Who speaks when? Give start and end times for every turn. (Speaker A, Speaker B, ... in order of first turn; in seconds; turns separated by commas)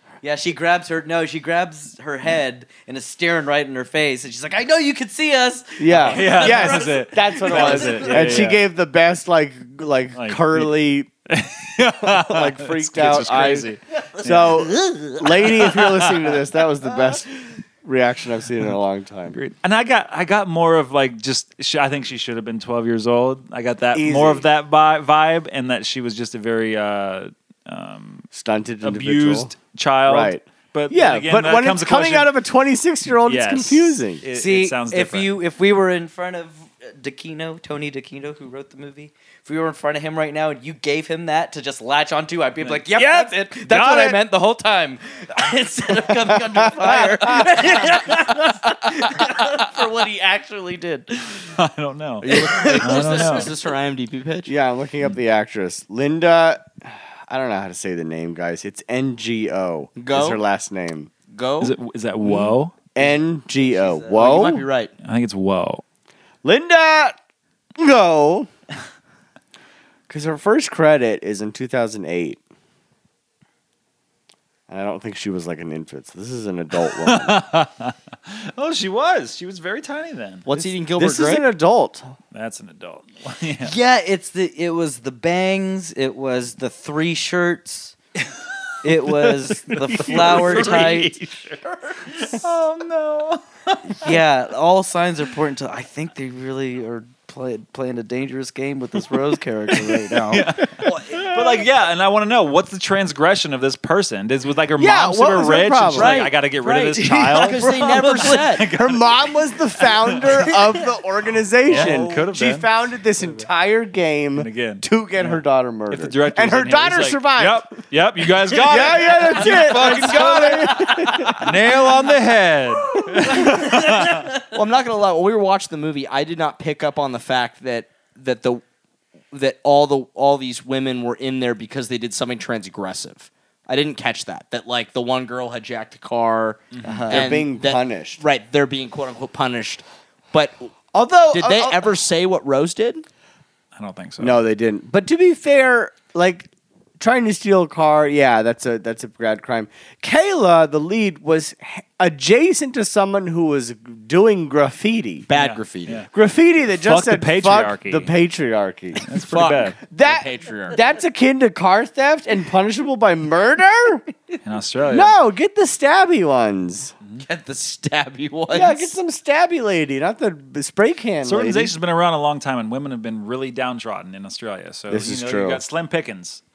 Speaker A: 0.2-8.5, Speaker B: 5.8-11.1, Speaker C: 6.0-8.6, Speaker C: 10.1-10.7, Speaker C: 11.3-16.3, Speaker B: 12.0-17.3, Speaker B: 17.8-19.4, Speaker C: 19.3-28.3, Speaker B: 23.9-24.4, Speaker B: 28.3-29.5, Speaker C: 28.8-32.3, Speaker B: 30.1-34.2, Speaker C: 33.2-35.3, Speaker A: 34.3-51.6, Speaker C: 42.6-44.2, Speaker B: 46.6-47.7, Speaker C: 51.6-53.5, Speaker A: 52.2-53.4, Speaker D: 52.3-54.5, Speaker B: 52.4-52.7, Speaker B: 54.5-61.1, Speaker D: 60.0-60.4, Speaker D: 61.3-62.5, Speaker C: 61.6-62.7, Speaker B: 62.9-64.6, Speaker A: 63.0-64.3, Speaker D: 64.2-64.9, Speaker C: 65.0-65.8, Speaker B: 66.4-67.2, Speaker B: 67.8-68.5, Speaker B: 70.1-72.4, Speaker B: 74.7-77.4, Speaker C: 76.9-80.5, Speaker D: 80.5-81.5, Speaker B: 80.6-82.1, Speaker C: 82.3-83.7, Speaker A: 83.6-87.9, Speaker A: 88.8-91.2, Speaker C: 89.0-91.6, Speaker D: 90.2-90.9, Speaker D: 91.6-92.0, Speaker C: 92.1-94.2, Speaker A: 94.0-100.5, Speaker C: 99.7-110.6, Speaker D: 100.8-101.6, Speaker B: 104.8-106.3, Speaker D: 105.9-108.7, Speaker B: 108.6-117.7, Speaker C: 111.7-112.7, Speaker C: 114.3-124.3, Speaker B: 118.5-121.5, Speaker D: 119.6-120.0, Speaker A: 123.3-123.6, Speaker D: 124.4-128.6, Speaker D: 129.3-140.7, Speaker C: 136.7-137.1, Speaker A: 136.8-137.2, Speaker B: 137.1-138.2, Speaker B: 140.9-141.9, Speaker D: 141.3-143.0, Speaker C: 143.8-144.4, Speaker B: 144.2-155.3, Speaker D: 155.3-156.1, Speaker C: 155.3-156.1, Speaker B: 156.1-159.1, Speaker C: 156.8-158.1, Speaker C: 159.0-159.8, Speaker D: 159.1-160.8, Speaker B: 159.9-164.0, Speaker C: 164.4-165.2, Speaker B: 164.8-166.9, Speaker D: 167.2-168.9, Speaker B: 168.5-171.7, Speaker C: 171.2-176.4, Speaker B: 174.9-175.6